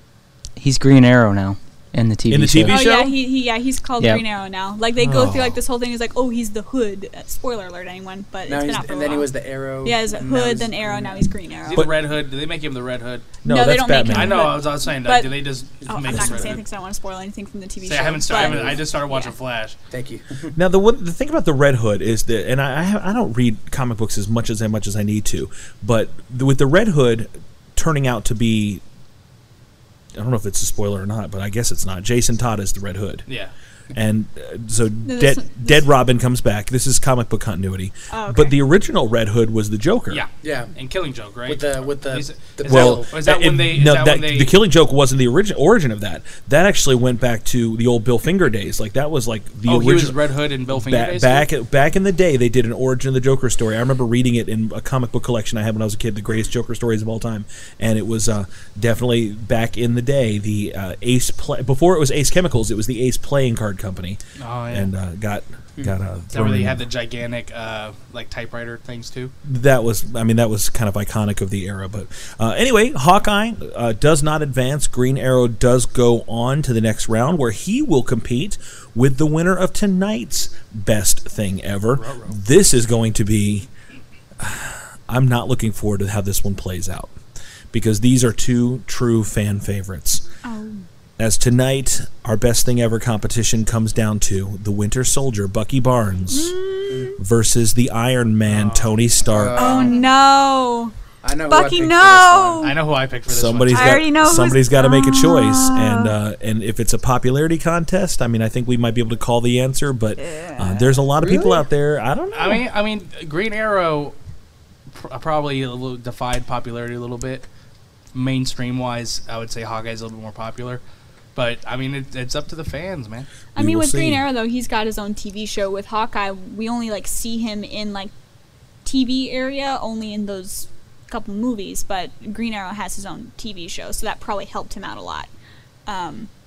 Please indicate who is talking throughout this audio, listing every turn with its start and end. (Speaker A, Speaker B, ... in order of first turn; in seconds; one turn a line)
Speaker A: 0.6-2.8
Speaker B: 2.3-3.1
Speaker C: 2.7-9.3
Speaker B: 5.0-5.6
Speaker D: 8.5-11.3
Speaker C: 9.8-11.9
Speaker E: 11.7-13.3
Speaker B: 13.4-14.6
Speaker C: 13.4-19.3
Speaker E: 14.0-16.6
Speaker D: 16.1-16.5
Speaker E: 17.8-19.8
Speaker D: 18.4-18.8
Speaker D: 19.9-20.5
Speaker B: 20.6-28.8
Speaker B: 30.1-33.3
Speaker E: 33.3-33.5
Speaker B: 33.9-40.2
Speaker C: 35.0-35.9
Speaker C: 38.1-38.6
Speaker E: 40.1-44.5
Speaker D: 40.4-40.7
Speaker D: 41.5-43.2
Speaker B: 42.6-64.2
Speaker E: 49.6-51.5
Speaker E: 64.4-64.9
Speaker B: 64.7-66.8
Speaker E: 66.3-69.3
Speaker B: 69.4-83.7
Speaker E: 82.0-82.3
Speaker B: 84.4-87.1
Speaker B: 87.7-90.2
Speaker C: 90.4-90.8
Speaker B: 91.2-96.5
Speaker C: 96.3-97.2
Speaker B: 97.2-99.9
Speaker E: 98.5-99.0
Speaker D: 99.3-100.0
Speaker C: 99.5-100.9
Speaker D: 101.2-102.7
Speaker C: 101.5-102.7
Speaker E: 102.6-104.0
Speaker B: 103.3-112.6
Speaker C: 103.7-106.1
Speaker C: 110.2-111.6
Speaker E: 112.3-114.1
Speaker E: 114.9-117.5
Speaker E: 118.1-120.8
Speaker E: 121.3-123.3
Speaker C: 123.5-128.1
Speaker B: 123.5-124.2
Speaker C: 128.8-135.3
Speaker C: 135.9-136.3